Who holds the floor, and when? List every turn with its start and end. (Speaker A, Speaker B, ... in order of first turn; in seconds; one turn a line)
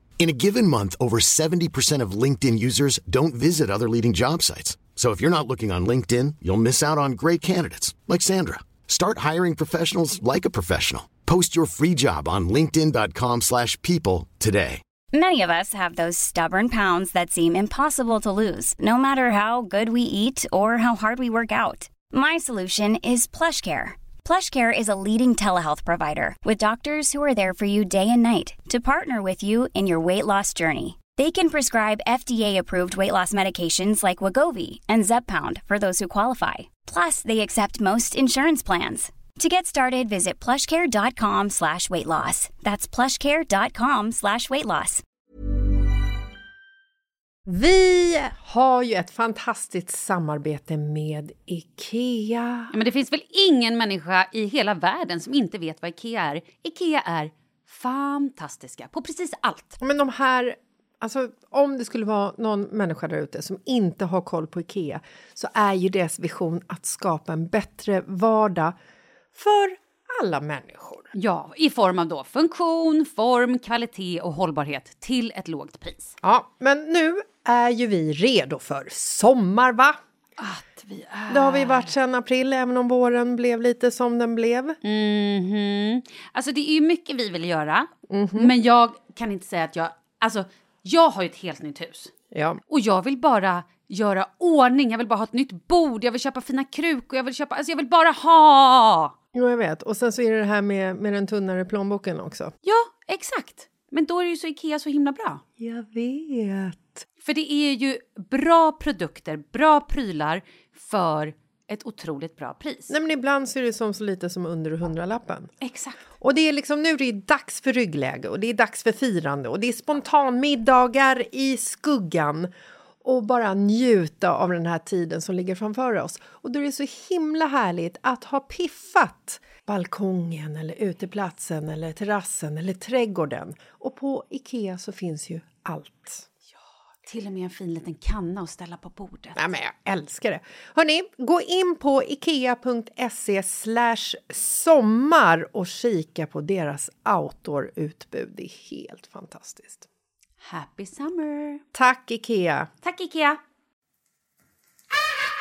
Speaker A: 0.2-14.8
Speaker B: 15.1-45.0
Speaker C: 47.5-52.7
Speaker D: 52.7-59.8
Speaker C: 59.8-68.8
Speaker C: 69.3-71.1
Speaker D: 71.1-76.2
Speaker C: 76.2-80.0
Speaker D: 80.4-81.9
Speaker C: 81.3-84.8
Speaker D: 84.8-92.1
Speaker C: 88.1-88.5
Speaker C: 92.3-92.6
Speaker D: 92.7-99.1
Speaker C: 99.3-102.5
Speaker D: 102.6-105.4
Speaker C: 105.6-107.0
Speaker D: 107.2-112.9
Speaker C: 112.9-115.5
Speaker D: 115.6-116.0
Speaker C: 116.2-122.5
Speaker C: 123.0-136.3
Speaker D: 137.1-139.4
Speaker C: 139.4-149.9
Speaker D: 150.4-151.6
Speaker C: 151.7-152.7
Speaker D: 152.8-153.4